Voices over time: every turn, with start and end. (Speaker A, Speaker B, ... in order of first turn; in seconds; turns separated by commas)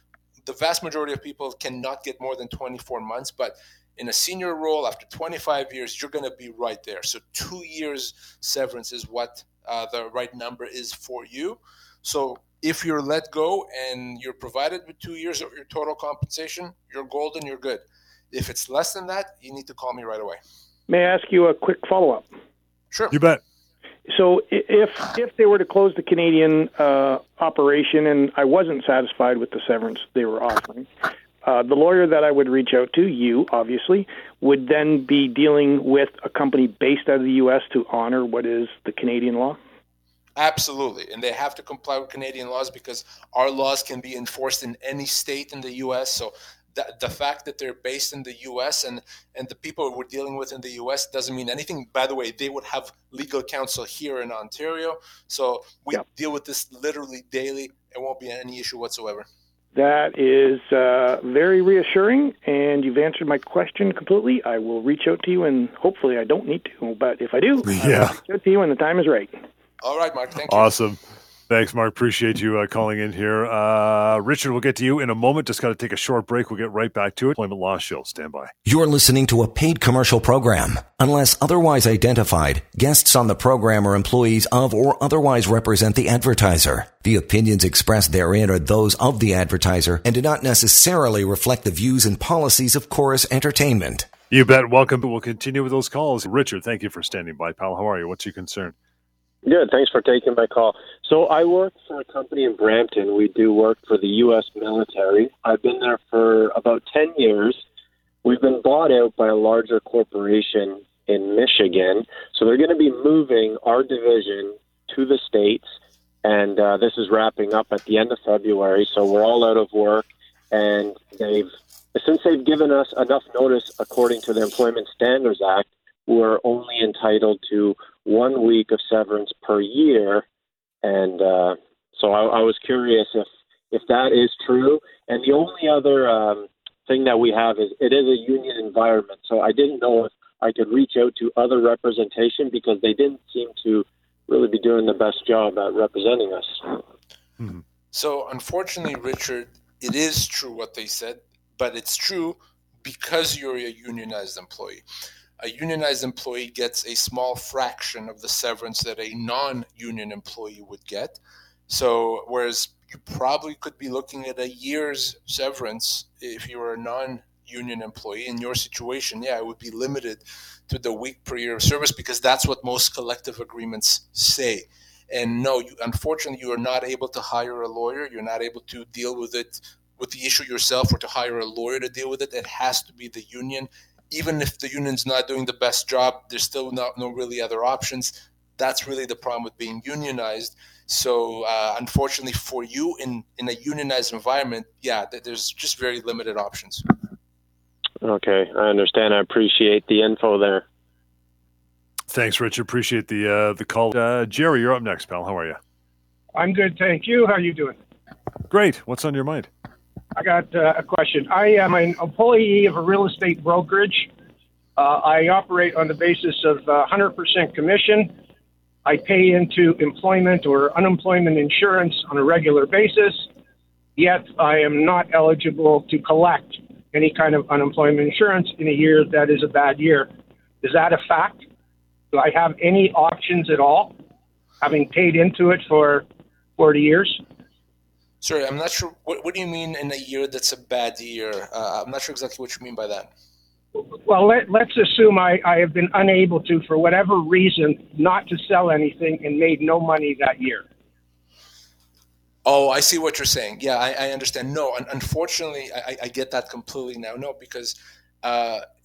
Speaker A: 0.5-20.4, Speaker B: 20.9-22.3, Speaker A: 22.9-23.2, Speaker C: 23.1-23.4, Speaker B: 24.1-30.9, Speaker B: 31.4-39.6, Speaker A: 40.4-59.3, Speaker B: 59.7-69.3, Speaker C: 67.7-68.2, Speaker A: 69.8-70.7, Speaker C: 70.5-78.5, Speaker D: 78.7-94.1, Speaker C: 94.3-98.8, Speaker E: 99.5-107.6, Speaker E: 108.2-115.7, Speaker E: 116.2-130.2, Speaker E: 130.8-146.6, Speaker A: 147.9-154.8, Speaker A: 155.4-161.2, Speaker A: 161.7-196.9, Speaker E: 198.0-200.6, Speaker C: 202.1-205.6, Speaker F: 206.3-207.8, Speaker C: 208.5-209.5, Speaker F: 210.2-214.1, Speaker F: 214.8-218.1, Speaker F: 218.8-223.3, Speaker F: 224.0-230.1, Speaker F: 230.6-231.4, Speaker F: 232.1-233.9, Speaker F: 234.6-236.1, Speaker F: 236.6-237.2, Speaker A: 238.2-243.1, Speaker F: 243.8-250.7, Speaker A: 252.4-258.6